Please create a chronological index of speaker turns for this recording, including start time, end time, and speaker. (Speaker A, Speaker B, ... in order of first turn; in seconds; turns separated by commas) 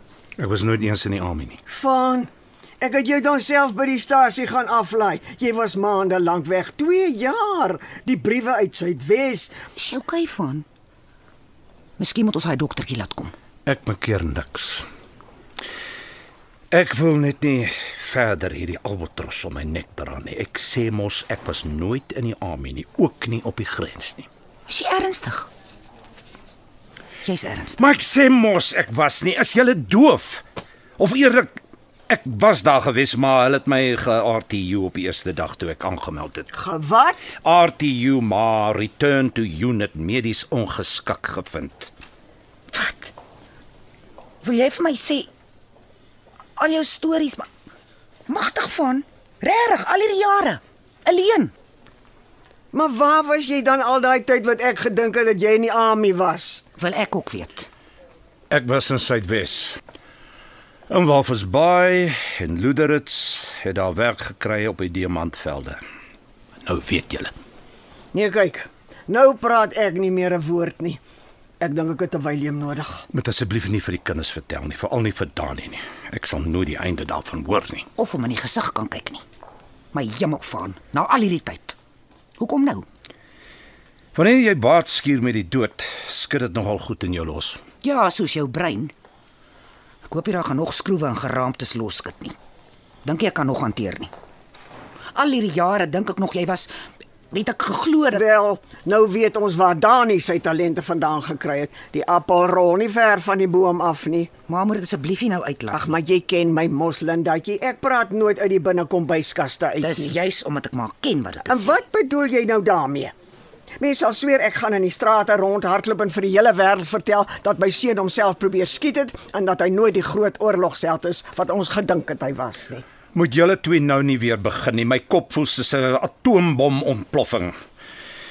Speaker A: 0.4-1.6, Speaker B: 1.7-9.6, Speaker C: 9.7-10.7, Speaker C: 12.0-13.3, Speaker A: 13.6-14.8, Speaker A: 16.7-24.3, Speaker C: 24.7-25.5, Speaker C: 27.2-27.8, Speaker A: 27.8-30.4, Speaker A: 31.0-36.5, Speaker B: 36.5-37.2, Speaker A: 37.4-41.9, Speaker C: 42.7-43.1, Speaker C: 44.4-45.3, Speaker C: 46.6-47.5, Speaker C: 48.3-51.5, Speaker B: 52.7-56.6, Speaker C: 56.8-57.7, Speaker A: 58.5-59.8, Speaker A: 60.9-65.8, Speaker A: 66.6-67.3, Speaker B: 68.1-71.0, Speaker B: 71.6-73.1, Speaker A: 73.1-77.9, Speaker C: 78.0-79.2, Speaker C: 79.9-81.7, Speaker C: 82.4-82.8, Speaker A: 84.1-87.6, Speaker C: 87.8-88.9, Speaker C: 90.1-92.3, Speaker C: 93.0-94.1, Speaker C: 95.1-96.7, Speaker C: 97.3-98.2, Speaker B: 98.1-104.3, Speaker C: 104.5-105.9, Speaker B: 105.7-110.1, Speaker C: 109.8-111.7, Speaker B: 111.5-113.1, Speaker B: 113.8-122.8, Speaker A: 123.1-127.5